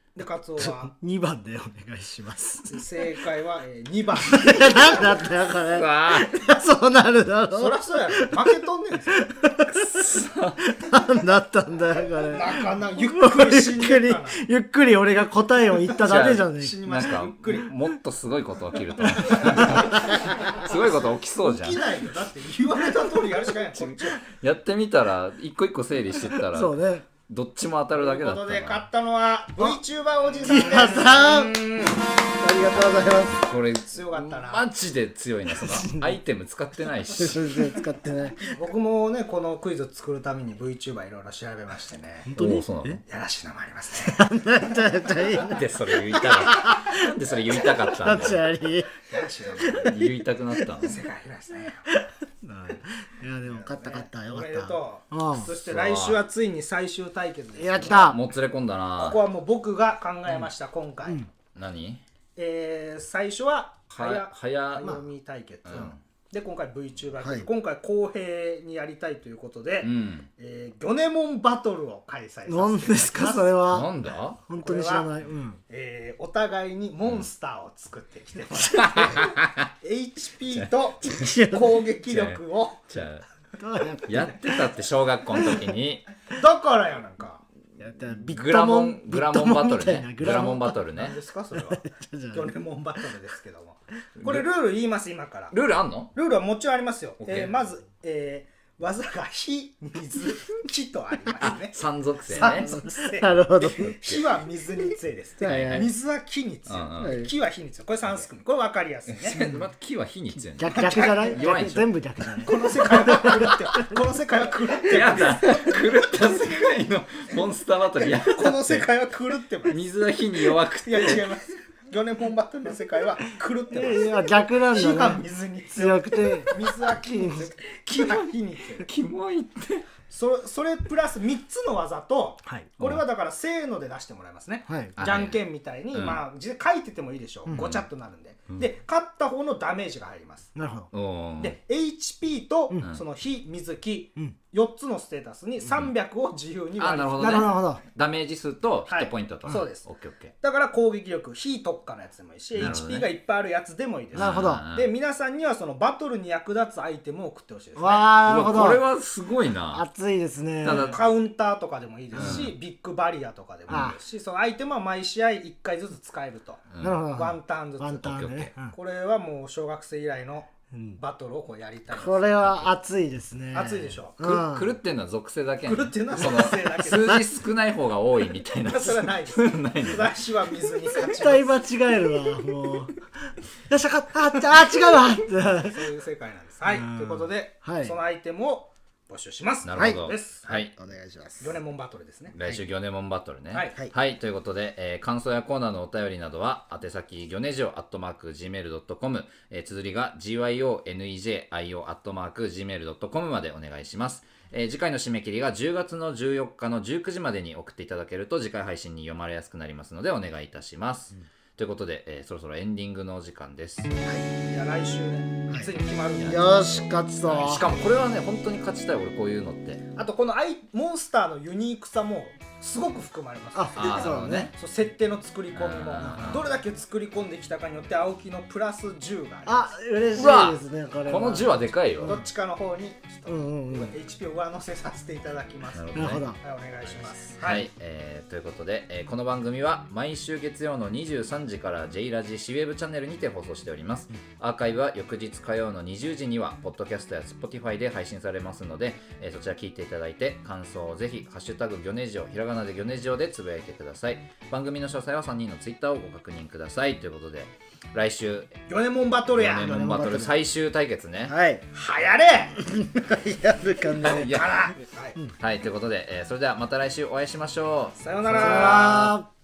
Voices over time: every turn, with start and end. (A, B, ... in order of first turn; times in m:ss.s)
0:00.1-0:00.9 A
0:00.6-0:03.0 B
0:02.7-0:05.3 A
0:04.2-0:08.5 B
0:05.5-0:06.4 C
0:07.5-0:09.3 A
0:09.1-0:10.1 B
0:09.9-0:10.6 C
0:10.6-0:16.8 B
0:12.2-0:14.4 A
0:16.0-0:21.8 C
0:16.3-0:17.7 A
0:19.2-0:20.5 B
0:19.2-0:24.2 A
0:23.8-0:28.9 C
0:26.4-0:27.0 B
0:27.9-0:31.4 A
0:30.4-0:31.6 B
0:31.1-0:32.0 C
0:32.3-0:33.4 B
0:33.5-0:37.7 C
0:33.9-0:34.6 A
0:35.6-0:36.2 B
0:37.1-0:38.5 B
0:38.4-0:42.3 A
0:42.2-0:43.0 B
0:42.4-0:43.0 C
0:43.1-0:44.2 A
0:44.0-0:47.0 B
0:45.4-0:48.4 C
0:47.6-0:48.9 B
0:49.1-0:50.0 A
0:49.6-0:50.0 B
0:49.7-0:51.0 C
0:50.5-0:50.8 B
0:50.8-0:51.9 A
0:51.9-0:55.5 B
0:53.4-0:58.1 A
0:55.6-0:56.2 C
0:57.6-0:58.2 B
0:57.8-0:59.2 C
0:59.0-1:01.3 A
1:01.5-1:02.0 C
1:02.4-1:13.7 A
1:03.9-1:05.0 C
1:05.6-1:06.0 C
1:07.2-1:07.5 B
1:09.8-1:10.3 C
1:12.5-1:13.9 B
1:13.7-1:14.4 C
1:14.5-1:15.6 B
1:14.5-1:15.1 A
1:15.7-1:22.8 A
1:18.7-1:19.7 C
1:21.0-1:21.8 B
1:22.1-1:23.2 C
1:23.6-1:24.5 B
1:24.0-1:26.0 C
1:26.3-1:27.4 A
1:27.8-1:30.8 B
1:28.3-1:31.2 C
1:31.0-1:35.6 A
1:31.5-1:32.5 B
1:34.2-1:34.4 C
1:35.5-1:36.1 C
1:36.1-1:49.4 A
1:37.2-1:37.5 C
1:41.4-1:42.7 C
1:42.4-1:44.0 B
1:45.4-1:45.9 B
1:45.4-1:45.9 C
1:46.7-1:47.2 C
1:47.0-1:47.3 B
1:49.1-1:51.9 C
1:50.5-1:54.0 B
1:50.7-1:51.4 A
1:52.4-1:55.8 A
1:54.8-1:58.9 C
1:55.4-1:55.7 B
1:58.0-1:59.8 A
1:59.6-2:01.3 C
2:00.8-2:08.9 A
2:03.7-2:07.5 B
2:08.0-2:08.2 C
2:08.8-2:09.8 C
2:10.1-2:20.5 A
2:14.7-2:14.9 B
2:15.0-2:15.4 C
2:15.9-2:16.2 C
2:17.5-2:17.8 C
2:20.5-2:20.9 B
2:20.9-2:21.6 C
2:21.4-2:27.5 A
2:26.8-2:30.3 C
2:27.2-2:27.8 B
2:28.9-2:29.8 A
2:30.4-2:38.2 A
2:32.6-2:33.1 C
2:34.1-2:34.6 B
2:34.1-2:34.9 C
2:37.8-2:38.8 B
2:38.2-2:39.8 C
2:39.7-2:41.0 B
2:40.6-2:41.0 C
2:40.9-2:52.7 A
2:42.1-2:42.5 B
2:42.1-2:42.5 C
2:43.7-2:44.0 B
2:46.7-2:47.0 C
2:46.8-2:48.7 B
2:48.0-2:48.5 C
2:50.7-2:51.0 B
2:51.9-2:54.8 B
2:53.5-2:54.4 A
2:54.2-3:00.1 C
2:55.6-2:57.3 A
2:58.6-3:01.6 A
3:00.9-3:05.8 B
3:05.6-3:10.6 A
3:06.7-3:08.0 B
3:09.6-3:10.7 C
3:10.7-3:11.5 B
3:11.4-3:12.4 A
3:12.3-3:33.9 C
3:13.5-3:13.8 A
3:34.4-3:36.6 A
3:36.2-3:37.7 B
3:37.2-3:39.8 C
3:39.9-3:49.7 A
3:43.5-3:44.5 B
3:43.8-3:44.5 C
3:45.5-3:46.4 C
3:49.4-3:52.3 B
3:50.1-3:52.2 C
3:52.0-3:57.6 A
3:53.3-3:53.9 B
3:55.7-3:56.3 C
3:55.9-3:56.4 B
3:57.3-4:18.6 C
4:18.7-4:19.8 A
4:19.3-4:21.3 C
4:19.4-4:20.4 B
4:21.3-4:21.6 B
4:21.7-4:22.6 A
4:22.6-4:24.4 B
4:24.0-4:24.7 C
4:24.0-4:25.2 A
4:25.4-4:28.0 C
4:28.0-4:29.2 A
4:28.3-4:29.3 B